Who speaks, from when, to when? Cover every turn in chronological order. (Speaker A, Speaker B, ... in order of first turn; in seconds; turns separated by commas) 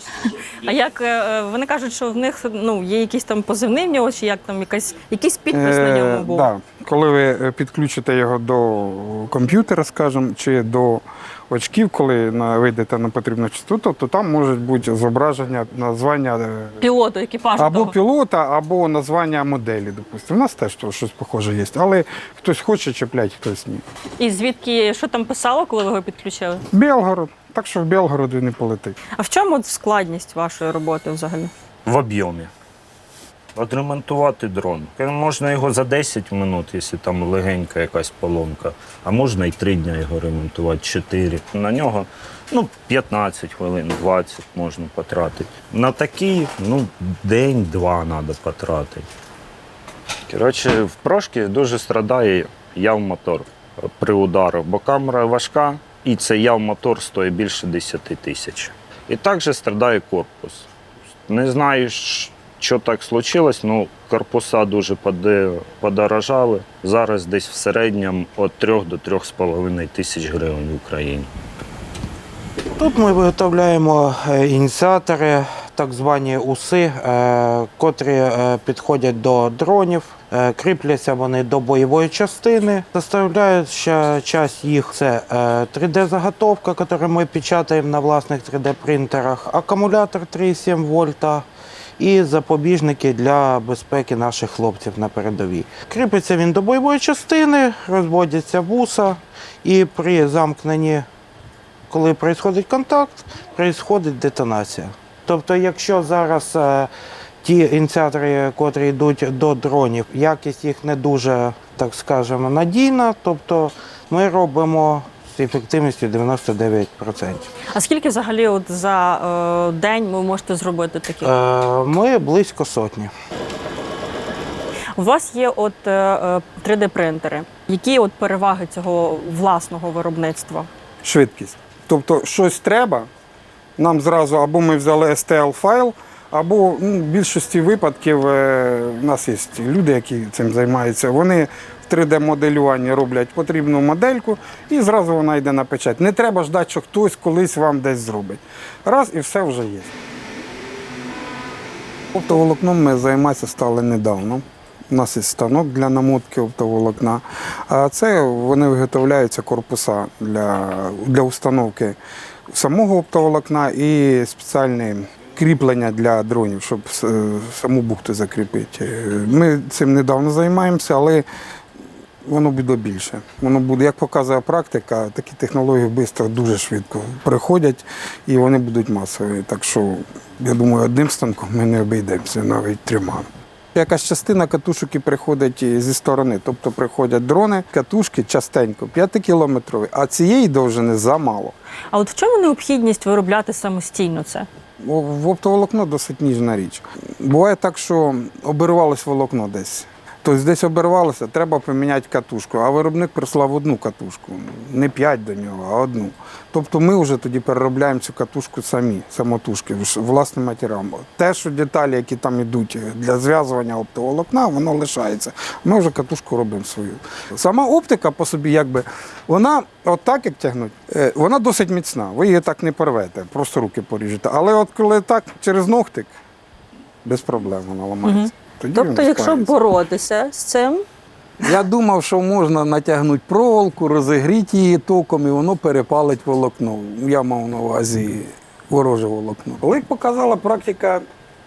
Speaker A: 0.2-6.5, Speaker B: 5.5-16.8, Speaker A: 16.8-17.9, Speaker B: 17.6-23.8, Speaker A: 24.2-26.6, Speaker B: 26.7-29.0, Speaker A: 29.2-31.5, Speaker C: 31.9-32.5, Speaker C: 33.6-49.1, Speaker C: 50.3-60.7, Speaker C: 61.3-71.3, Speaker D: 72.8-91.5, Speaker D: 92.0-101.1, Speaker D: 101.9-106.9, Speaker D: 107.4-117.5, Speaker A: 117.7-121.3, Speaker D: 121.2-123.1, Speaker A: 125.0-130.7, Speaker B: 131.0-133.1, Speaker B: 133.8-149.9, Speaker B: 152.1-162.0, Speaker B: 162.5-171.2, Speaker B: 172.2-191.6, Speaker A: 191.9-194.5, Speaker B: 194.8-226.1, Speaker B: 227.0-229.5, Speaker A: 228.1-230.8, Speaker B: 231.4-241.0